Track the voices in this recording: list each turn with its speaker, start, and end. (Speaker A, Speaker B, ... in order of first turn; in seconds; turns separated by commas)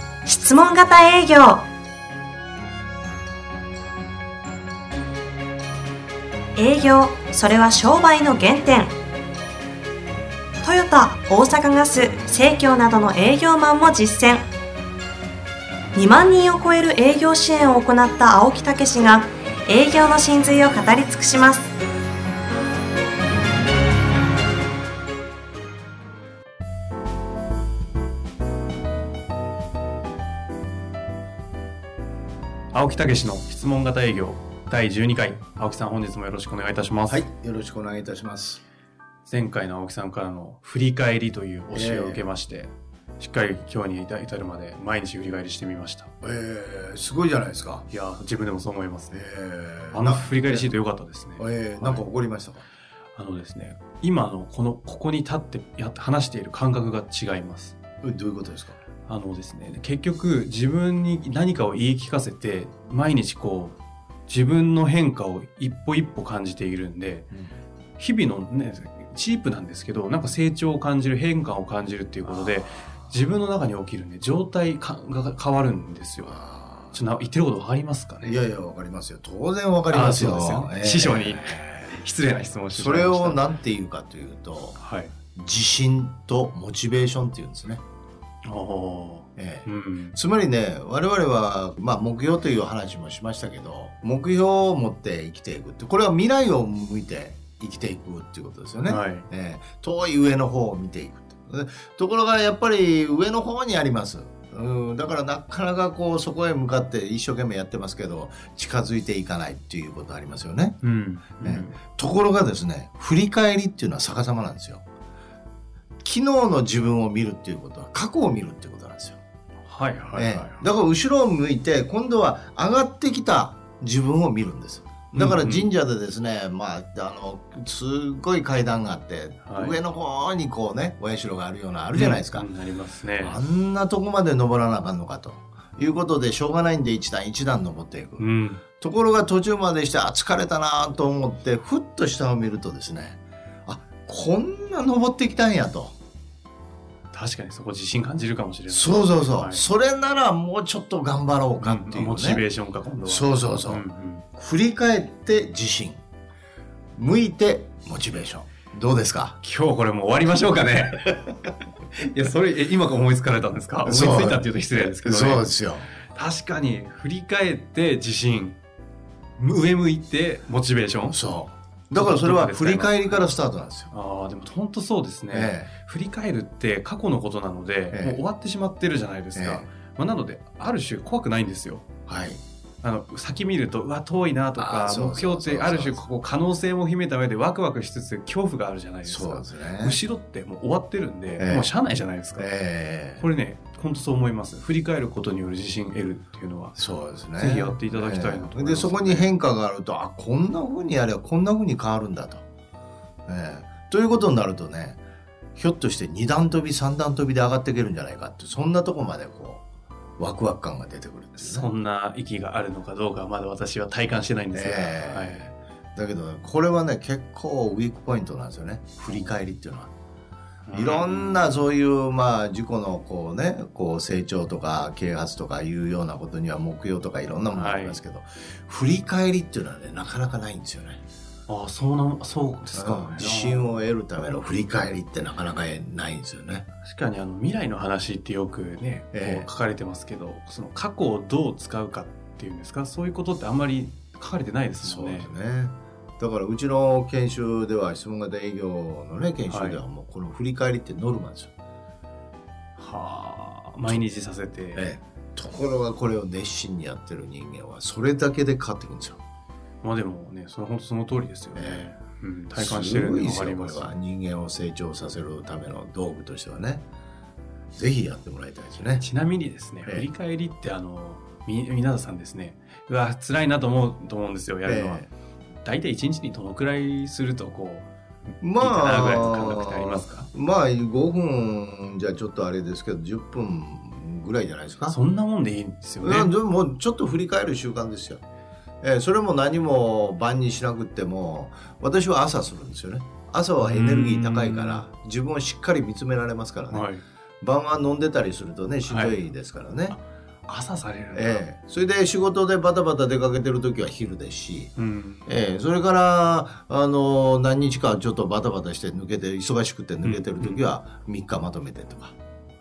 Speaker A: 0.2-1.6, Speaker A: 6.5-8.9, Speaker A: 10.6-14.4, Speaker A: 15.9-21.7, Speaker B: 32.7-37.3, Speaker C: 37.1-38.6, Speaker B: 39.2-46.1, Speaker C: 41.7-42.3, Speaker C: 46.2-47.9, Speaker B: 47.9-49.2, Speaker C: 49.1-50.7, Speaker B: 49.9-52.0, Speaker C: 51.4-52.6, Speaker B: 53.1-57.8, Speaker C: 58.0-58.8, Speaker B: 59.0-63.8, Speaker B: 64.3-67.3, Speaker B: 68.0-76.4, Speaker C: 72.2-73.1, Speaker C: 76.2-77.0, Speaker B: 76.9-78.4, Speaker C: 78.2-82.0, Speaker B: 79.9-83.5, Speaker C: 82.7-84.8, Speaker B: 84.8-85.1, Speaker C: 85.3-87.8, Speaker B: 88.4-90.2, Speaker C: 89.4-110.8, Speaker B: 98.8-99.3, Speaker B: 110.8-111.8, Speaker C: 111.4-114.8, Speaker C: 116.0-119.2, Speaker B: 119.6-120.6, Speaker C: 120.1-132.5, Speaker B: 125.1-125.7, Speaker B: 129.4-129.8, Speaker B: 131.9-133.4, Speaker C: 133.2-138.2, Speaker B: 138.2-138.6, Speaker C: 138.8-145.9, Speaker B: 147.1-149.6, Speaker C: 148.7-152.4, Speaker B: 151.6-154.3, Speaker C: 153.0-153.8, Speaker C: 154.3-156.0, Speaker C: 156.9-159.4, Speaker B: 159.4-165.5, Speaker C: 163.8-165.9, Speaker B: 166.1-168.6, Speaker B: 169.4-171.2, Speaker C: 171.1-173.9, Speaker B: 171.9-173.3, Speaker B: 173.9-181.9, Speaker C: 175.3-175.7, Speaker C: 177.9-178.2, Speaker C: 179.3-179.7, Speaker C: 182.1-182.4, Speaker B: 182.8-192.5, Speaker C: 184.6-186.1, Speaker C: 189.1-190.0, Speaker C: 191.4-191.7, Speaker C: 192.4-193.3, Speaker B: 193.2-196.8, Speaker C: 196.8-202.4, Speaker B: 197.3-199.3, Speaker C: 203.3-205.0, Speaker C: 205.6-209.6, Speaker C: 210.2-211.7, Speaker B: 211.4-215.4, Speaker C: 214.5-219.9, Speaker B: 220.7-221.6, Speaker C: 220.7-231.0, Speaker B: 227.5-228.0, Speaker B: 231.5-233.7, Speaker C: 232.7-236.7, Speaker B: 236.8-245.3, Speaker C: 239.1-239.5, Speaker C: 244.8-251.5, Speaker B: 249.5-249.8, Speaker B: 252.8-254.9, Speaker C: 254.7-259.2, Speaker B: 259.8-263.9, Speaker C: 261.6-261.9, Speaker C: 262.5-266.9, Speaker C: 267.8-269.0, Speaker B: 269.0-275.1, Speaker C: 274.6-275.1, Speaker B: 275.6-280.3, Speaker C: 278.4-285.0, Speaker B: 284.9-286.3, Speaker C: 286.0-288.2, Speaker C: 288.8-296.9, Speaker B: 293.6-294.8, Speaker B: 296.7-297.0, Speaker C: 297.4-300.0, Speaker B: 298.9-299.2, Speaker B: 299.9-301.4, Speaker C: 301.1-304.7, Speaker B: 304.8-305.3, Speaker C: 305.2-312.1, Speaker B: 310.0-310.6